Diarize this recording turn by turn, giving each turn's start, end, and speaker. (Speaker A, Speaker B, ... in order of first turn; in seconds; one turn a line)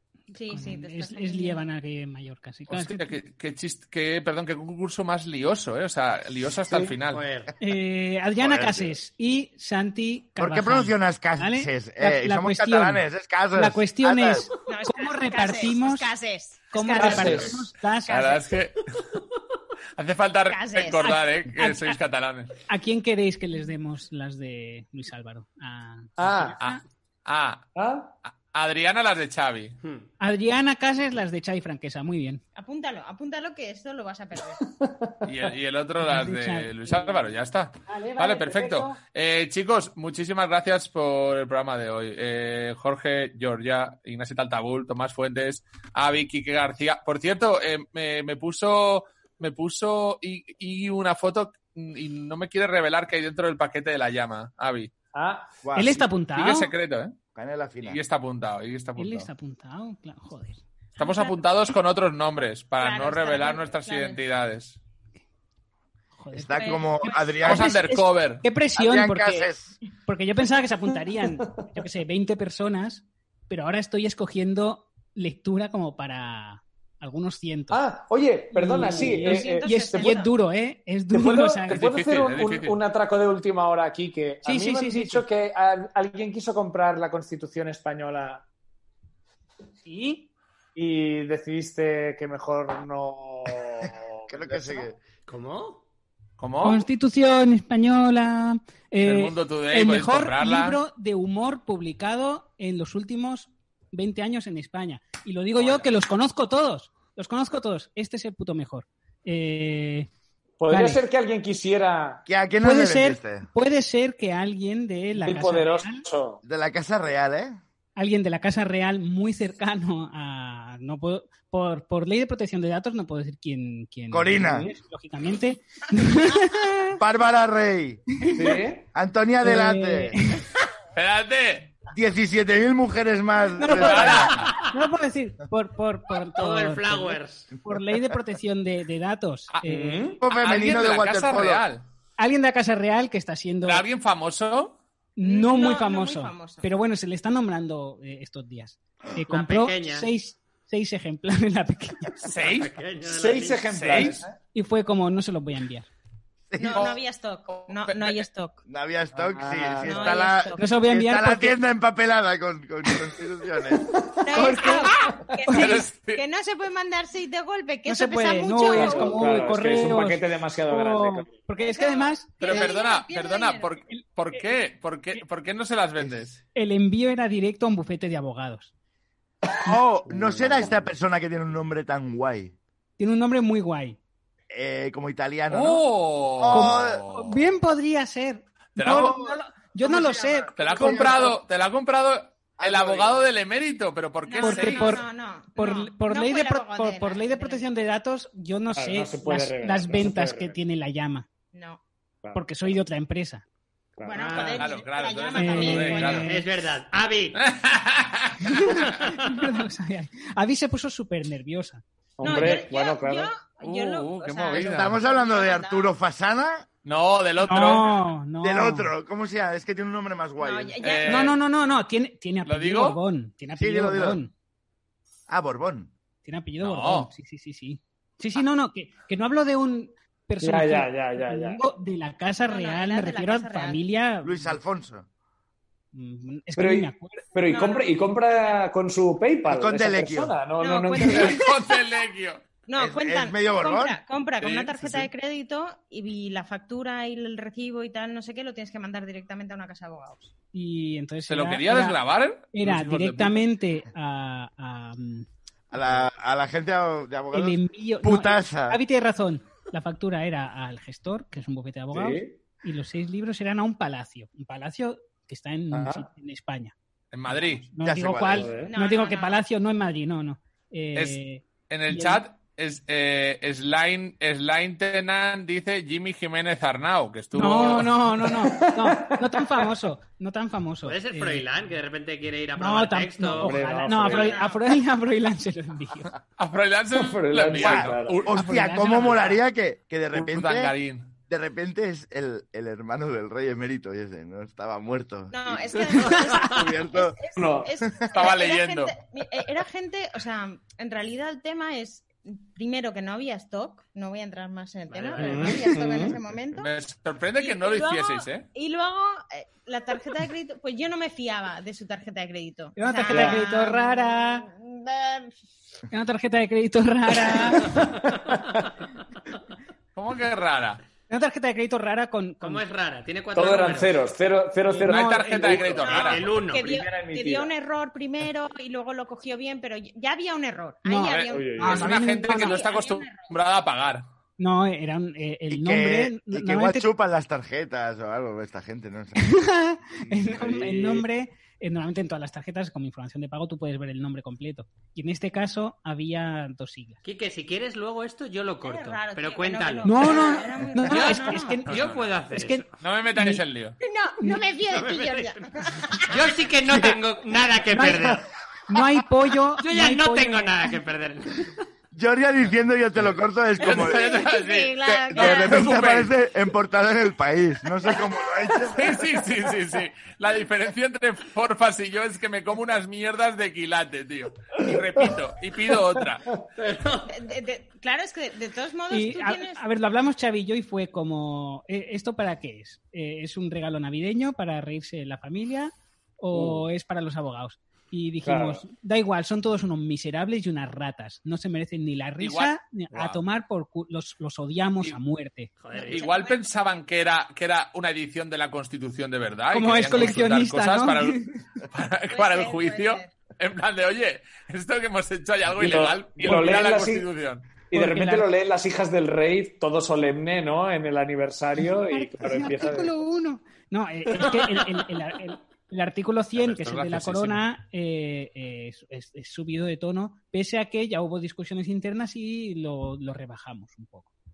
Speaker A: 0.3-1.6
Speaker B: 0.5-3.2
Speaker C: 2.7-7.2
Speaker D: 6.7-6.9
Speaker E: 7.1-7.5
Speaker B: 7.6-13.0
Speaker F: 8.4-8.9
Speaker F: 10.4-14.5
Speaker B: 13.5-16.1
Speaker A: 14.7-17.5
Speaker B: 16.7-18.4
Speaker D: 17.0-17.6
Speaker C: 18.1-19.1
Speaker A: 18.1-18.4
Speaker C: 19.9-22.5
Speaker A: 20.5-21.1
Speaker B: 21.0-22.0
Speaker B: 22.7-26.8
Speaker D: 26.2-26.6
Speaker C: 26.6-27.7
Speaker D: 27.8-28.1
Speaker C: 28.2-29.8
Speaker E: 29.8-30.1
Speaker B: 30.2-32.4
Speaker A: 32.5-34.6
Speaker D: 34.5-35.3
Speaker C: 35.2-54.9
Speaker B: 36.0-37.4
Speaker B: 37.9-39.0
Speaker D: 55.1-55.6
Speaker F: 55.6-56.0
Speaker B: 55.7-56.7
Speaker C: 56.3-57.1
Speaker F: 57.3-58.0
Speaker C: 57.8-59.3
Speaker B: 59.0-60.6
Speaker A: 61.0-61.3
Speaker C: 61.0-64.8
Speaker A: 62.8-64.2
Speaker B: 66.2-69.5
Speaker F: 66.3-67.7
Speaker A: 66.5-67.4
Speaker C: 67.4-68.4
Speaker F: 68.8-69.8
Speaker B: 70.0-77.8
Speaker D: 71.4-71.7
Speaker D: 77.7-80.1
Speaker B: 78.5-81.9
Speaker A: 79.0-80.3
Speaker D: 81.1-88.4
Speaker C: 81.7-82.8
Speaker B: 84.4-85.2
Speaker B: 89.8-90.3
Speaker D: 90.7-94.9
Speaker F: 93.8-95.0
Speaker E: 95.3-95.8
Speaker C: 96.4-96.9
Speaker B: 96.6-110.1
Speaker C: 99.0-100.8
Speaker D: 110.6-112.2
Speaker B: 110.7-111.0
Speaker F: 112.2-113.5
Speaker B: 112.6-116.0
Speaker D: 115.2-116.4
Speaker F: 116.4-117.6
Speaker B: 118.0-127.0
Speaker F: 124.1-124.7
Speaker F: 126.9-128.1
Speaker B: 128.2-128.6
Speaker D: 128.3-128.8
Speaker F: 128.9-130.2
Speaker B: 129.4-130.4
Speaker C: 130.9-131.7
Speaker F: 131.9-134.3
Speaker B: 133.6-140.1
Speaker C: 133.7-134.6
Speaker E: 136.3-137.5
Speaker D: 139.6-140.2
Speaker F: 140.2-141.6
Speaker C: 140.3-141.8
Speaker B: 142.2-143.8
Speaker C: 143.6-144.8
Speaker B: 145.2-152.3
Speaker A: 145.2-146.7
Speaker E: 149.3-150.1
Speaker C: 152.2-152.7
Speaker E: 152.4-154.2
Speaker D: 153.0-154.3
Speaker B: 154.5-155.9
Speaker F: 156.5-156.9
Speaker A: 156.6-158.6
Speaker C: 156.7-157.0
Speaker C: 157.6-158.2
Speaker F: 158.7-163.9
Speaker D: 159.1-160.2
Speaker A: 159.8-160.7
Speaker B: 160.6-161.6
Speaker D: 163.8-164.5
Speaker A: 164.2-169.2
Speaker B: 164.3-165.2
Speaker C: 165.4-166.2
Speaker B: 167.8-172.7
Speaker D: 168.7-171.4
Speaker A: 171.6-173.7
Speaker C: 172.4-176.4
Speaker B: 173.9-174.6
Speaker F: 176.0-176.3
Speaker B: 176.5-178.7
Speaker F: 179.6-182.5
Speaker D: 180.0-180.9
Speaker B: 183.0-184.0
Speaker F: 184.5-185.8
Speaker C: 185.5-187.3
Speaker F: 186.4-187.1
Speaker B: 186.5-191.2
Speaker C: 188.8-189.1
Speaker F: 188.8-191.4
Speaker C: 190.5-195.0
Speaker F: 192.6-193.3
Speaker A: 194.3-197.6
Speaker B: 194.4-201.3
Speaker D: 198.7-200.6
Speaker A: 201.5-201.8
Speaker B: 202.3-203.4
Speaker D: 204.0-204.6
Speaker A: 204.0-206.3
Speaker B: 204.1-204.6
Speaker C: 204.6-206.3
Speaker B: 205.3-206.5
Speaker E: 206.2-207.4
Speaker C: 207.3-208.9
Speaker B: 208.4-211.8
Speaker D: 212.2-213.3
Speaker A: 212.2-215.9
Speaker C: 213.6-215.0
Speaker F: 214.5-216.7
Speaker C: 216.8-218.0
Speaker B: 217.4-218.9
Speaker F: 218.4-220.8
Speaker A: 220.4-221.3
Speaker C: 220.8-221.4
Speaker B: 221.1-224.3
Speaker C: 222.4-223.0
Speaker F: 223.6-224.2
Speaker F: 225.3-225.9
Speaker B: 226.2-234.5
Speaker C: 226.6-227.1
Speaker D: 230.4-231.6
Speaker A: 232.4-233.8
Speaker F: 234.2-235.1
Speaker B: 235.9-237.3
Speaker D: 236.6-241.4
Speaker A: 237.5-238.0
Speaker F: 239.4-240.4
Speaker A: 240.6-241.5
Speaker C: 241.0-242.4
Speaker A: 242.7-250.3
Speaker F: 242.8-244.8
Speaker C: 244.4-245.0
Speaker B: 250.5-252.0
Speaker C: 251.3-253.3
Speaker B: 252.5-255.3
Speaker F: 255.7-258.8
Speaker B: 257.3-266.7
Speaker D: 261.9-262.4
Speaker D: 265.7-266.1
Speaker C: 267.1-267.7
Speaker B: 267.3-272.2
Speaker F: 267.8-268.5
Speaker D: 268.3-268.7
Speaker A: 268.6-269.4
Speaker C: 271.7-278.0
Speaker B: 277.3-281.5
Speaker D: 278.2-279.7
Speaker E: 280.8-284.3
Speaker B: 282.6-286.1
Speaker D: 283.3-284.4
Speaker A: 284.1-284.6
Speaker C: 286.4-288.3
Speaker D: 286.9-288.2
Speaker F: 287.5-290.7
Speaker B: 288.3-289.3
Speaker C: 290.1-291.1
Speaker F: 291.3-298.3
Speaker A: 295.3-306.7
Speaker B: 296.1-296.4
Speaker D: 297.4-297.7
Speaker C: 298.1-298.9
Speaker E: 304.9-305.7
Speaker D: 305.1-306.2
Speaker C: 306.5-308.5
Speaker A: 307.4-315.3
Speaker B: 312.8-314.4
Speaker D: 313.1-313.4
Speaker B: 315.9-317.8
Speaker D: 317.3-318.7
Speaker E: 317.8-318.4
Speaker C: 319.9-320.8
Speaker B: 321.1-322.6
Speaker E: 322.4-324.0
Speaker D: 323.3-327.5
Speaker B: 324.6-325.8
Speaker C: 324.9-326.2
Speaker A: 325.8-333.3
Speaker E: 325.9-326.8
Speaker B: 330.8-332.6
Speaker C: 331.0-334.1
Speaker D: 331.3-331.8
Speaker B: 334.4-336.9
Speaker F: 335.5-339.3
Speaker B: 339.1-347.0
Speaker D: 340.3-341.0
Speaker E: 347.0-352.6
Speaker A: 348.6-351.6
Speaker B: 349.8-353.4
Speaker C: 351.7-352.1
Speaker C: 352.8-353.8
Speaker A: 353.8-356.1
Speaker B: 354.2-354.5
Speaker E: 354.7-355.4
Speaker E: 356.0-358.2
Speaker B: 356.7-357.0
Speaker B: 357.7-360.7
Speaker E: 359.6-361.6
Speaker F: 361.9-364.2
Speaker C: 363.6-366.1
Speaker A: 363.6-365.8
Speaker F: 365.1-368.9
Speaker C: 368.7-376.3
Speaker D: 375.8-376.4
Speaker E: 376.6-377.1
Speaker A: 377.1-379.6
Speaker B: 378.9-395.5
Speaker D: 386.3-386.6
Speaker D: 388.2-388.6
Speaker C: 392.2-393.2
Speaker E: 395.6-396.1
Speaker A: 395.8-396.4
Speaker C: 395.8-407.6
Speaker B: 399.5-401.4
Speaker A: 402.1-403.1
Speaker D: 405.6-407.1
Speaker D: 407.7-412.9
Speaker B: 407.7-408.3
Speaker B: 411.6-424.1
Speaker D: 414.2-414.8
Speaker C: 416.4-417.4